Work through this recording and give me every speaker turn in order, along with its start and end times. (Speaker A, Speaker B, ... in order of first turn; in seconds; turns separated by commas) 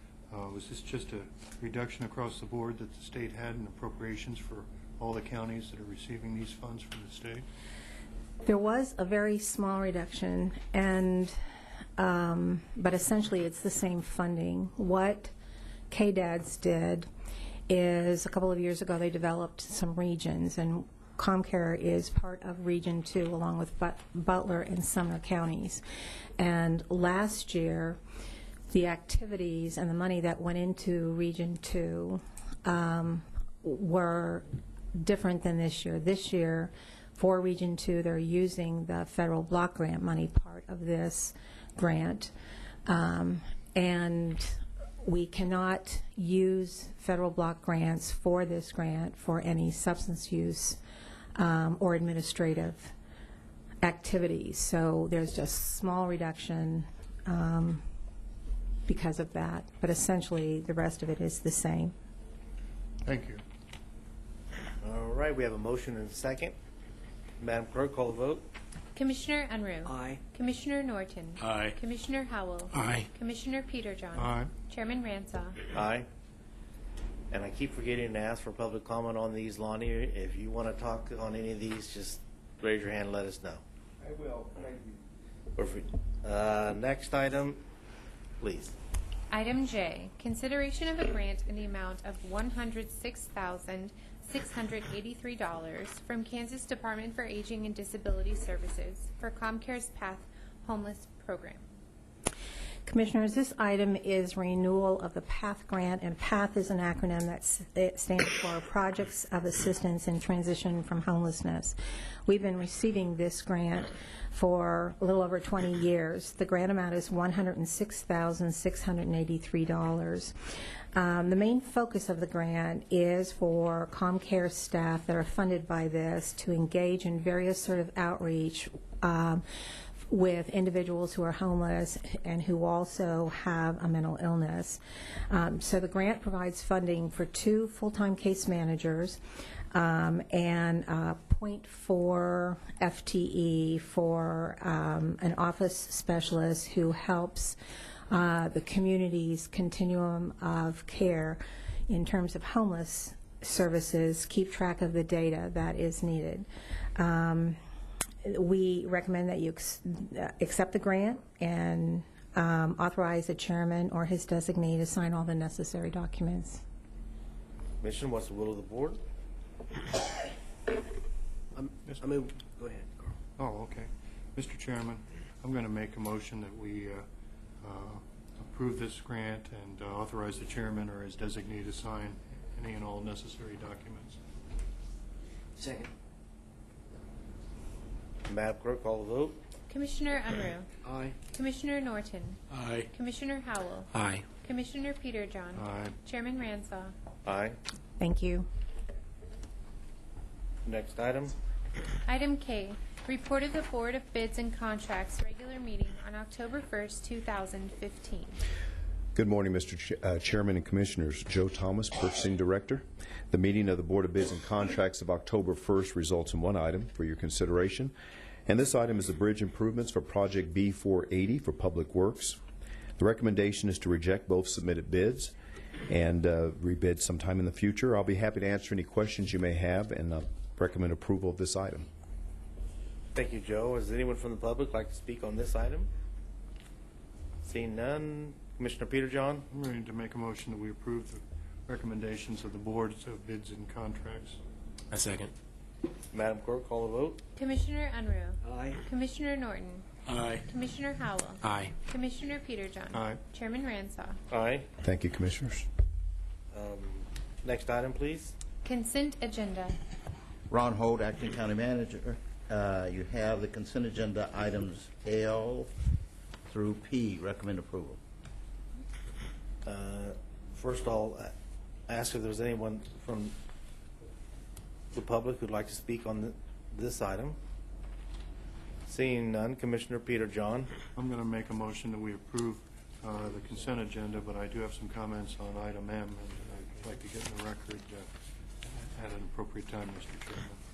Speaker A: 0.3-7.5, Speaker B: 8.4-11.3, Speaker B: 12.0-15.3, Speaker B: 15.9-17.1, Speaker B: 17.7-25.8, Speaker B: 26.4-28.0, Speaker B: 28.7-42.3, Speaker B: 42.9-50.8, Speaker B: 51.3-52.9, Speaker B: 53.8-57.8, Speaker B: 58.9-61.9, Speaker A: 63.0-63.4, Speaker C: 64.8-66.5, Speaker C: 67.4-68.5, Speaker D: 68.9-75.6, Speaker E: 69.9-70.2, Speaker F: 71.4-71.8, Speaker F: 72.7-73.1, Speaker A: 74.2-74.5, Speaker C: 75.7-76.1, Speaker C: 77.3-83.6, Speaker C: 85.6-87.6, Speaker C: 88.4-88.8, Speaker D: 89.3-101.7, Speaker B: 102.8-120.3, Speaker B: 120.9-129.4, Speaker B: 130.1-139.2, Speaker B: 139.7-147.6, Speaker B: 148.1-157.6, Speaker B: 158.2-166.6, Speaker C: 167.8-169.0, Speaker C: 172.0-173.0, Speaker E: 172.2-173.0, Speaker A: 173.4-177.1, Speaker A: 177.6-184.2, Speaker E: 185.6-185.9, Speaker C: 188.3-189.4, Speaker D: 189.7-190.7, Speaker E: 190.8-191.1, Speaker D: 191.3-196.9, Speaker F: 192.5-192.9, Speaker F: 193.9-194.2, Speaker A: 195.6-195.9, Speaker C: 197.2-197.6, Speaker B: 198.0-198.5, Speaker C: 200.6-201.3, Speaker D: 202.1-208.4, Speaker G: 209.1-217.9, Speaker G: 218.4-222.4, Speaker G: 223.0-225.3, Speaker G: 225.9-231.9, Speaker C: 233.1-235.9, Speaker C: 237.4-239.4, Speaker A: 239.5-244.4, Speaker F: 244.9-245.3, Speaker C: 246.1-247.2, Speaker D: 247.3-254.2, Speaker E: 248.4-248.8, Speaker F: 250.1-250.4, Speaker F: 251.4-251.7, Speaker C: 254.3-254.7, Speaker G: 254.8-255.7, Speaker C: 256.5-258.4, Speaker D: 258.6-259.8, Speaker H: 260.5-265.7, Speaker H: 266.5-268.0, Speaker C: 269.6-271.3, Speaker C: 271.9-273.4, Speaker C: 274.9-277.4, Speaker C: 278.9-280.7, Speaker A: 280.9-288.1, Speaker A: 288.6-290.6